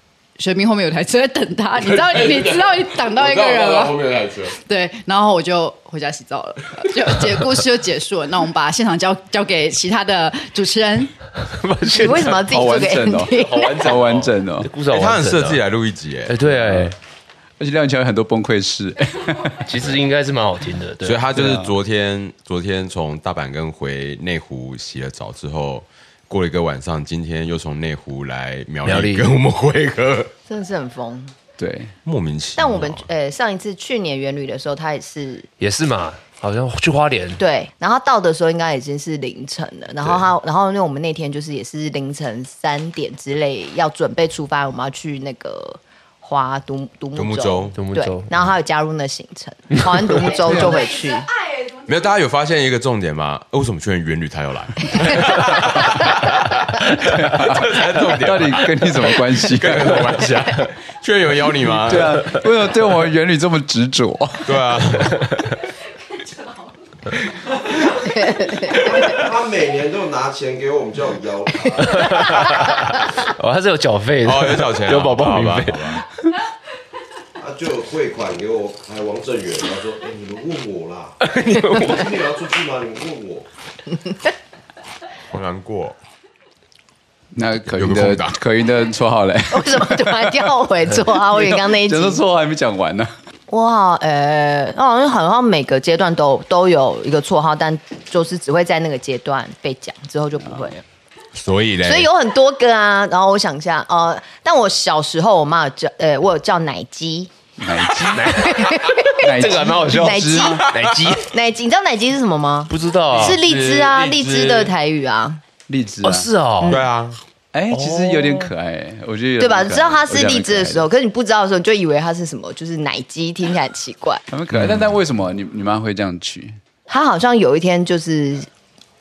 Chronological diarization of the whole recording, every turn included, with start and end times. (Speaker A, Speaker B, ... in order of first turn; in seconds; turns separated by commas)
Speaker A: 0.4-11.1, Speaker B: 1.8-4.6, Speaker C: 11.4-12.5, Speaker D: 11.9-13.8, Speaker E: 12.3-14.7, Speaker C: 13.3-15.6, Speaker B: 14.9-16.4, Speaker C: 16.3-17.0, Speaker E: 16.5-16.9, Speaker E: 17.6-19.8, Speaker C: 19.6-21.3, Speaker B: 21.0-30.3, Speaker E: 21.3-21.7, Speaker C: 28.8-29.4, Speaker D: 30.5-31.3, Speaker E: 31.6-31.9, Speaker B: 32.0-33.0, Speaker D: 32.6-35.5, Speaker C: 35.6-37.4, Speaker D: 37.4-51.3, Speaker B: 47.1-47.8, Speaker C: 47.8-48.3, Speaker E: 50.4-50.8, Speaker B: 51.9-62.4, Speaker E: 57.0-60.3, Speaker E: 61.5-64.8, Speaker B: 64.5-65.4, Speaker C: 65.0-65.5, Speaker D: 68.0-68.8, Speaker F: 68.7-72.8, Speaker C: 71.8-76.0, Speaker B: 74.2-76.0, Speaker F: 77.4-81.2, Speaker C: 81.2-82.1, Speaker F: 81.7-83.5, Speaker B: 85.3-86.0, Speaker E: 87.3-90.5, Speaker B: 87.7-88.4, Speaker D: 89.5-92.2, Speaker E: 91.2-93.2, Speaker D: 93.5-100.8, Speaker E: 100.5-100.8, Speaker B: 101.3-102.1, Speaker D: 101.8-107.3, Speaker E: 107.6-110.7, Speaker C: 108.1-111.3, Speaker D: 108.4-110.7, Speaker D: 111.2-115.4, Speaker C: 112.7-113.4, Speaker B: 113.2-114.7, Speaker E: 115.7-116.3, Speaker C: 116.0-116.8, Speaker B: 116.7-117.2, Speaker E: 117.5-120.9, Speaker C: 117.7-118.5, Speaker D: 119.4-124.2, Speaker E: 124.3-126.6, Speaker D: 126.9-128.5